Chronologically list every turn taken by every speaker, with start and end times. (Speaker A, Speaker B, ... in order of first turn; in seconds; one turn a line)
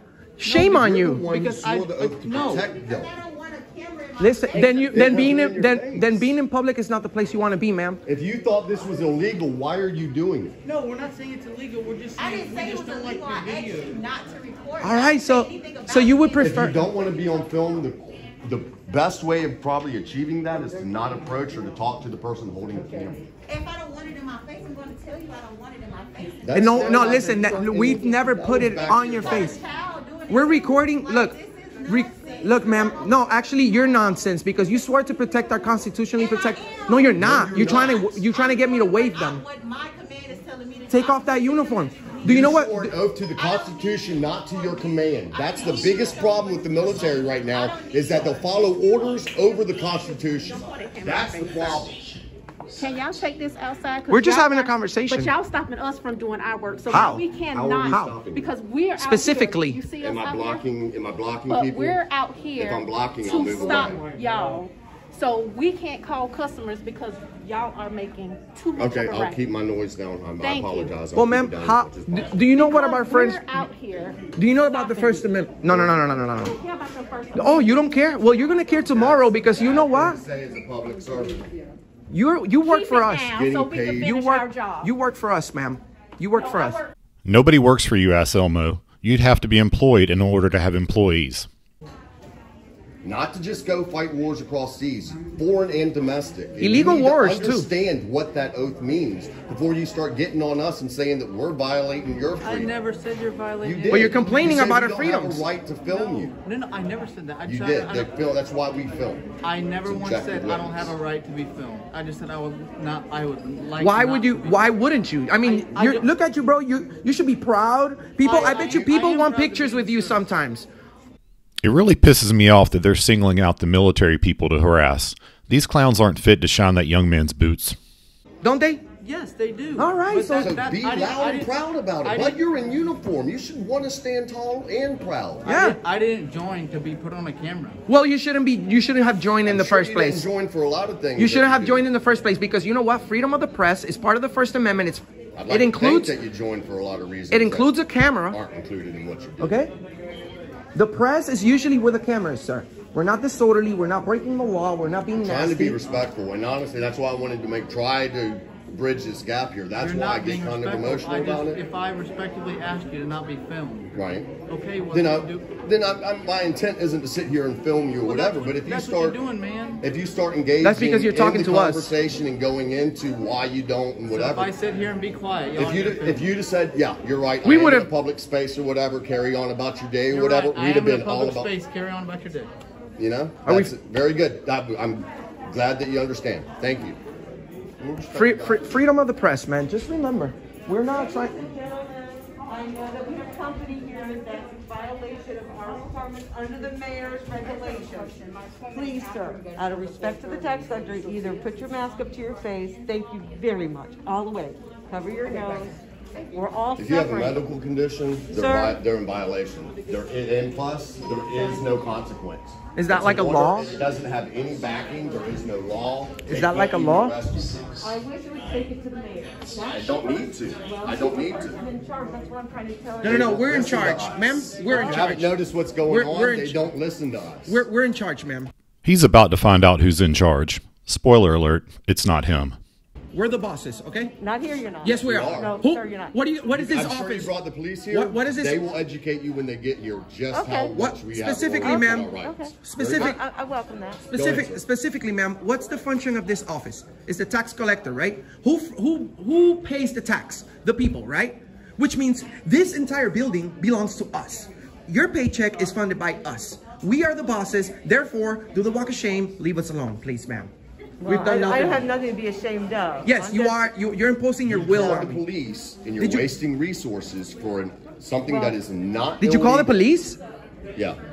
Speaker A: 0.4-1.3
Speaker B: 0.4-2.6
Speaker C: 0.6-3.1
Speaker D: 2.6-4.9
Speaker A: 4.2-8.0
Speaker C: 4.8-6.2
Speaker C: 8.0-10.6
Speaker B: 10.6-14.0
Speaker D: 12.2-16.4
Speaker A: 14.8-16.8
Speaker C: 16.4-23.3
Speaker D: 23.5-26.6
Speaker C: 26.4-29.6
Speaker A: 26.5-29.6
Speaker D: 28.8-33.3
Speaker A: 30.3-39.4
Speaker D: 36.2-41.4
Speaker C: 37.1-38.1
Speaker A: 40.9-43.0
Speaker C: 42.2-52.0
Speaker D: 43.4-43.9
Speaker D: 45.3-48.6
Speaker E: 50.5-51.9
Speaker E: 52.8-60.6
Speaker A: 54.1-55.3
Speaker A: 56.9-57.2
Speaker C: 57.5-58.5
Speaker A: 57.9-58.2
Speaker A: 59.0-59.8
Speaker C: 60.0-62.0
Speaker E: 61.5-69.4
Speaker C: 62.6-64.0
Speaker F: 63.5-64.3
Speaker C: 68.8-72.3
Speaker E: 70.4-70.9
Speaker A: 71.1-73.4
Speaker E: 72.5-75.2
Speaker A: 74.3-76.6
Speaker E: 76.4-77.9
Speaker A: 77.3-80.2
Speaker C: 78.9-81.4
Speaker A: 82.1-83.3
Speaker E: 82.6-84.9
Speaker C: 83.3-84.1
Speaker A: 84.1-86.8
Speaker E: 86.3-86.9
Speaker G: 87.2-91.5
Speaker C: 93.0-102.7
Speaker A: 96.6-97.7
Speaker B: 102.4-104.5
Speaker C: 103.6-106.3
Speaker A: 103.9-105.5
Speaker B: 105.8-108.1
Speaker C: 107.4-109.2
Speaker B: 109.4-114.7
Speaker C: 109.8-111.0
Speaker A: 113.7-120.7
Speaker B: 115.4-116.0
Speaker B: 118.2-120.2
Speaker G: 121.6-127.8
Speaker A: 128.4-128.8
Speaker B: 129.0-132.4
Speaker A: 129.8-130.6
Speaker C: 130.4-135.5
Speaker A: 135.4-135.8
Speaker B: 135.4-137.8
Speaker A: 137.9-140.2
Speaker C: 139.4-141.8
Speaker A: 141.2-146.1
Speaker C: 145.3-147.8
Speaker A: 147.3-148.4
Speaker C: 148.3-149.6
Speaker A: 149.4-149.7
Speaker A: 150.7-155.8
Speaker C: 155.2-161.6
Speaker B: 159.8-163.9
Speaker C: 163.9-164.3
Speaker B: 164.5-165.5
Speaker C: 164.9-169.2
Speaker B: 168.0-169.8
Speaker C: 169.8-174.5
Speaker A: 170.6-171.9
Speaker B: 174.1-176.3
Speaker C: 175.5-181.5
Speaker A: 177.4-177.9
Speaker B: 180.1-182.5
Speaker C: 183.0-187.0
Speaker A: 183.4-183.7
Speaker C: 187.8-188.6
Speaker A: 188.1-191.3
Speaker F: 190.9-205.8
Speaker F: 206.3-207.4
Speaker C: 206.8-217.8
Speaker F: 208.3-208.8
Speaker A: 212.7-213.7
Speaker A: 216.2-217.2
Speaker F: 217.8-225.3
Speaker C: 219.7-221.6
Speaker A: 223.0-226.7
Speaker C: 223.0-227.6
Speaker A: 227.4-228.5
Speaker G: 228.8-232.6
Speaker A: 233.1-234.2
Speaker F: 234.2-236.4
Speaker A: 234.8-237.3
Speaker C: 234.9-235.6
Speaker C: 236.5-243.2
Speaker A: 237.9-238.7
Speaker F: 240.3-240.7
Speaker A: 240.7-243.2
Speaker F: 241.6-244.2
Speaker A: 244.1-260.5
Speaker C: 244.1-244.6
Speaker F: 261.0-263.7
Speaker A: 261.1-261.9
Speaker A: 263.0-265.2
Speaker C: 264.4-269.8
Speaker F: 264.7-265.1
Speaker A: 266.0-266.3
Speaker F: 268.3-268.6
Speaker A: 269.2-270.2